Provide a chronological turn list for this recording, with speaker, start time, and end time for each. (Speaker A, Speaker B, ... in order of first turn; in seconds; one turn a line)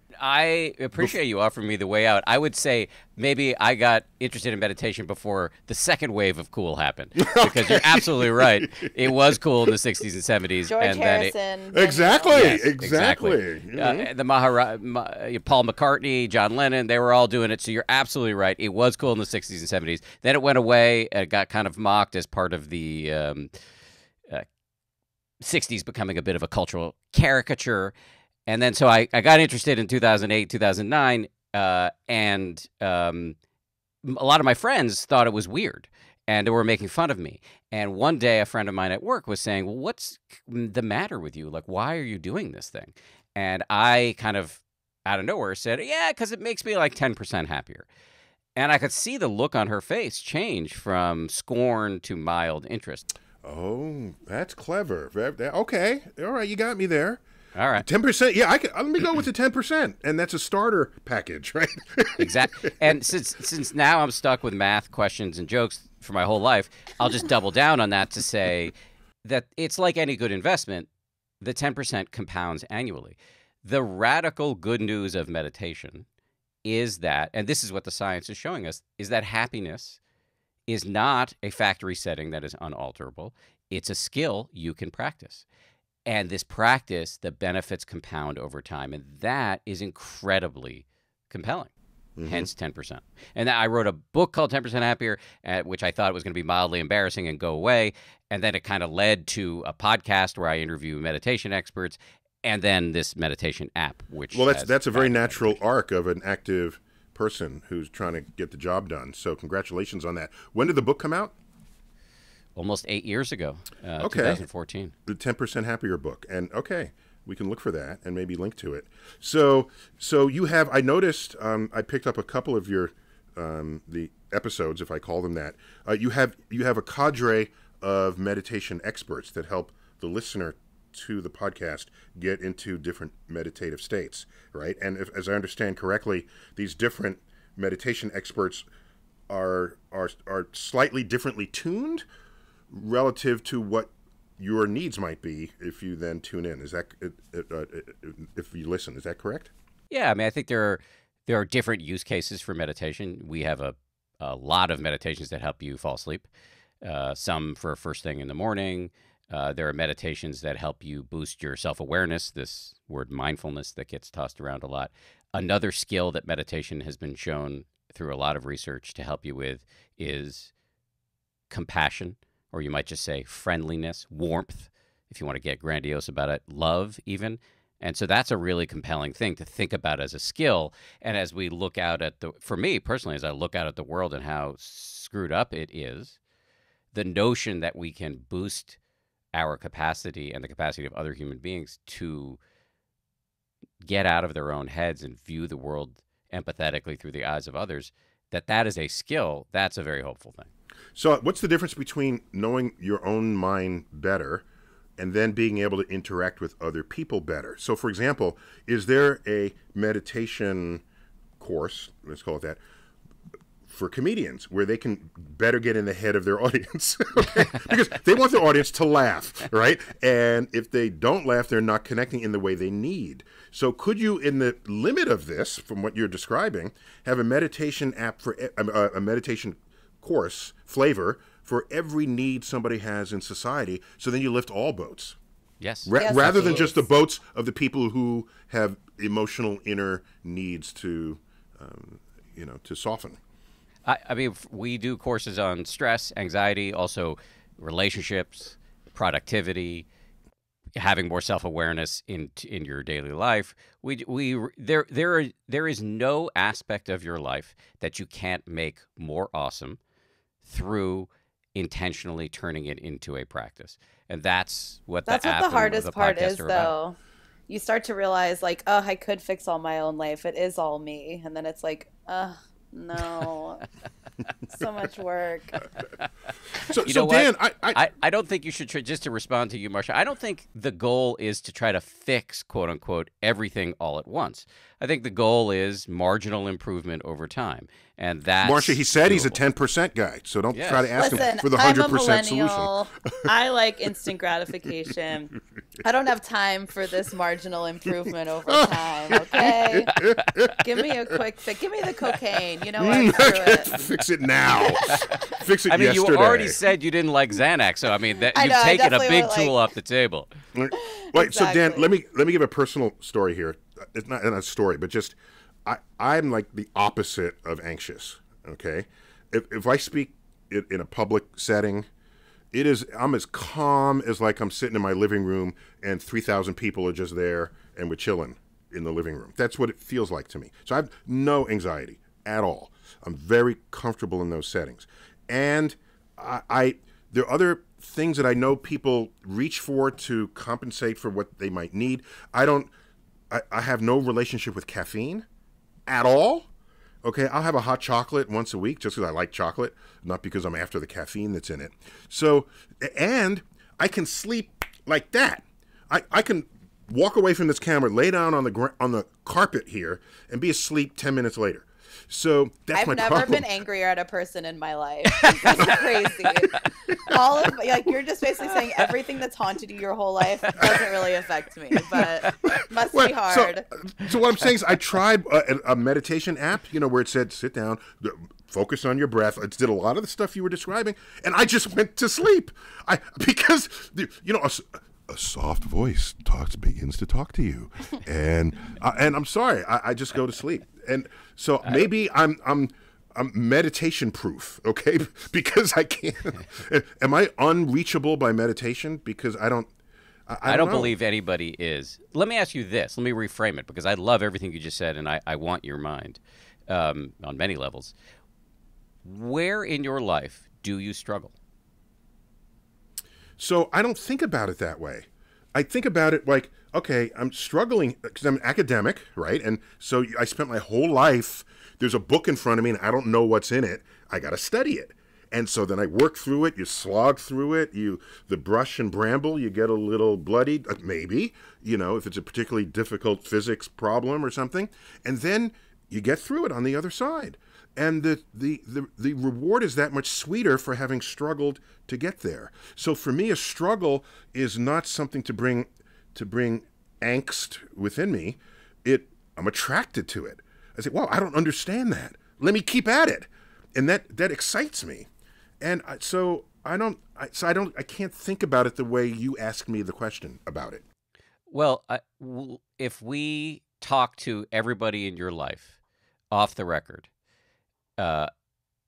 Speaker A: 0.2-11.3
Speaker B: 7.2-9.4
Speaker C: 10.7-12.6
Speaker B: 11.7-14.1
Speaker A: 12.3-23.5
Speaker A: 25.4-27.9
Speaker A: 28.5-33.4
Speaker A: 34.0-47.9
Speaker A: 48.5-53.1
Speaker B: 53.4-57.2
Speaker A: 57.5-57.9
Speaker B: 57.8-63.0
Speaker A: 62.2-68.7
Speaker A: 69.2-70.9
Speaker A: 71.4-76.0
Speaker A: 76.6-80.0
Speaker A: 80.7-85.4
Speaker A: 86.0-91.7
Speaker B: 92.2-92.5
Speaker A: 92.2-105.6
Speaker B: 104.3-111.3
Speaker A: 112.5-114.9
Speaker B: 114.0-114.4
Speaker B: 115.0-138.6
Speaker B: 139.3-142.0
Speaker B: 142.7-149.5
Speaker A: 149.9-156.3
Speaker A: 156.8-170.5
Speaker A: 171.5-186.2
Speaker A: 186.9-188.8
Speaker A: 189.3-192.4
Speaker A: 193.8-200.5
Speaker B: 200.9-204.4
Speaker B: 205.0-210.8
Speaker B: 211.4-212.6
Speaker B: 213.7-235.2
Speaker A: 235.6-236.7
Speaker B: 235.8-243.2
Speaker C: 236.0-236.7
Speaker A: 243.8-249.8
Speaker A: 250.8-259.8
Speaker A: 260.4-266.7
Speaker C: 265.1-266.9
Speaker C: 267.5-273.6
Speaker C: 274.5-275.6
Speaker B: 276.6-277.8
Speaker A: 276.6-289.4
Speaker B: 288.4-293.2
Speaker A: 290.5-291.2
Speaker C: 291.0-300.0
Speaker B: 298.5-301.2
Speaker C: 300.5-303.8
Speaker B: 302.8-306.6
Speaker C: 304.6-305.3
Speaker A: 305.7-310.3
Speaker C: 308.3-309.5
Speaker B: 310.5-321.9
Speaker C: 310.7-311.9
Speaker B: 322.5-342.7
Speaker B: 343.3-345.2
Speaker B: 345.9-346.5
Speaker B: 347.0-363.5
Speaker C: 362.7-373.7
Speaker A: 365.1-365.8
Speaker B: 365.6-365.9
Speaker B: 366.9-367.2
Speaker A: 370.4-370.8
Speaker B: 370.6-370.9
Speaker A: 371.9-372.6
Speaker B: 372.4-399.7
Speaker B: 400.3-400.9
Speaker A: 400.4-407.9
Speaker A: 409.0-411.3
Speaker B: 413.4-455.1
Speaker B: 455.6-460.8
Speaker A: 461.5-465.8
Speaker A: 466.3-467.1
Speaker A: 468.0-468.3